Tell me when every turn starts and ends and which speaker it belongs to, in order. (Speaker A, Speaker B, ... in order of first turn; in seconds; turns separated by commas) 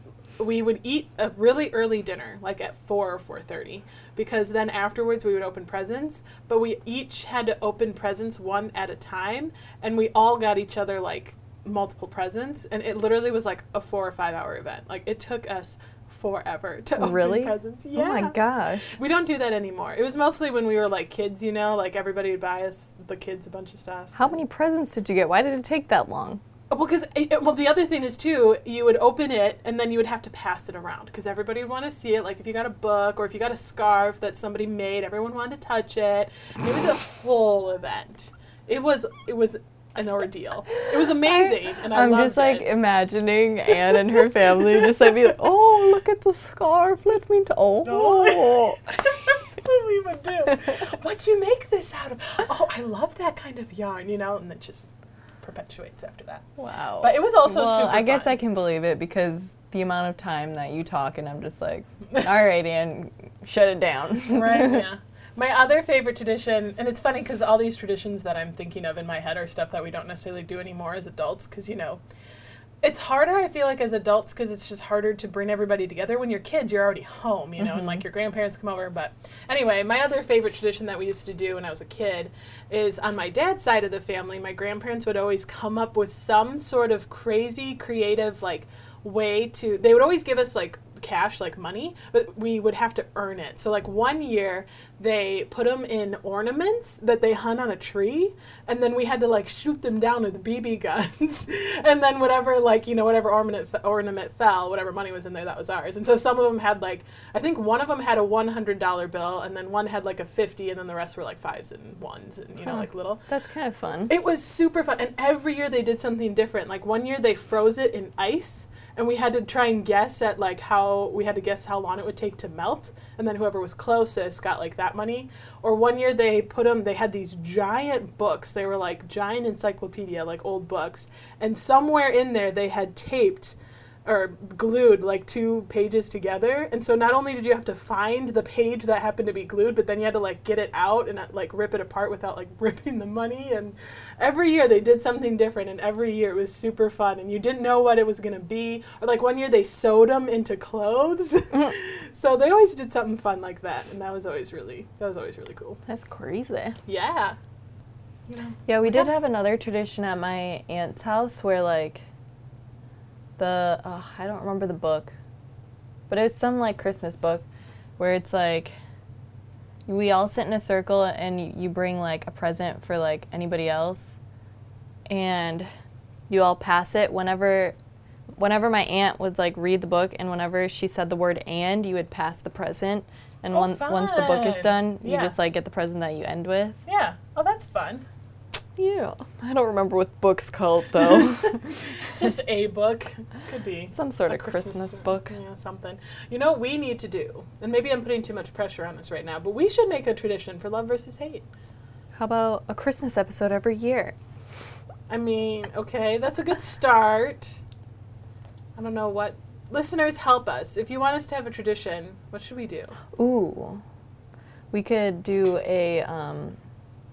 Speaker A: 0.4-18.4, Speaker B: 17.0-19.0, Speaker A: 19.0-24.3, Speaker B: 24.1-26.4, Speaker A: 26.7-42.7, Speaker B: 40.8-49.4, Speaker A: 43.9-45.1, Speaker A: 47.8-56.5, Speaker B: 56.6-64.8, Speaker A: 57.0-58.4, Speaker A: 64.3-72.0, Speaker A: 72.8-113.2, Speaker B: 77.6-78.0, Speaker B: 112.7-114.1, Speaker A: 114.1-155.8, Speaker B: 155.9-156.8, Speaker A: 156.9-157.4, Speaker A: 158.3-159.1, Speaker B: 158.7-162.0, Speaker B: 163.4-165.2, Speaker B: 166.1-167.4, Speaker B: 168.0-168.8, Speaker B: 169.9-174.2, Speaker B: 175.1-175.7, Speaker B: 176.3-177.8, Speaker B: 178.4-186.8, Speaker A: 183.5-185.4, Speaker A: 186.9-188.1, Speaker B: 188.8-192.1, Speaker A: 191.1-201.4, Speaker B: 193.9-195.4, Speaker B: 202.2-204.2, Speaker A: 205.1-207.6, Speaker A: 208.8-213.0, Speaker B: 213.2-213.8, Speaker B: 214.7-216.6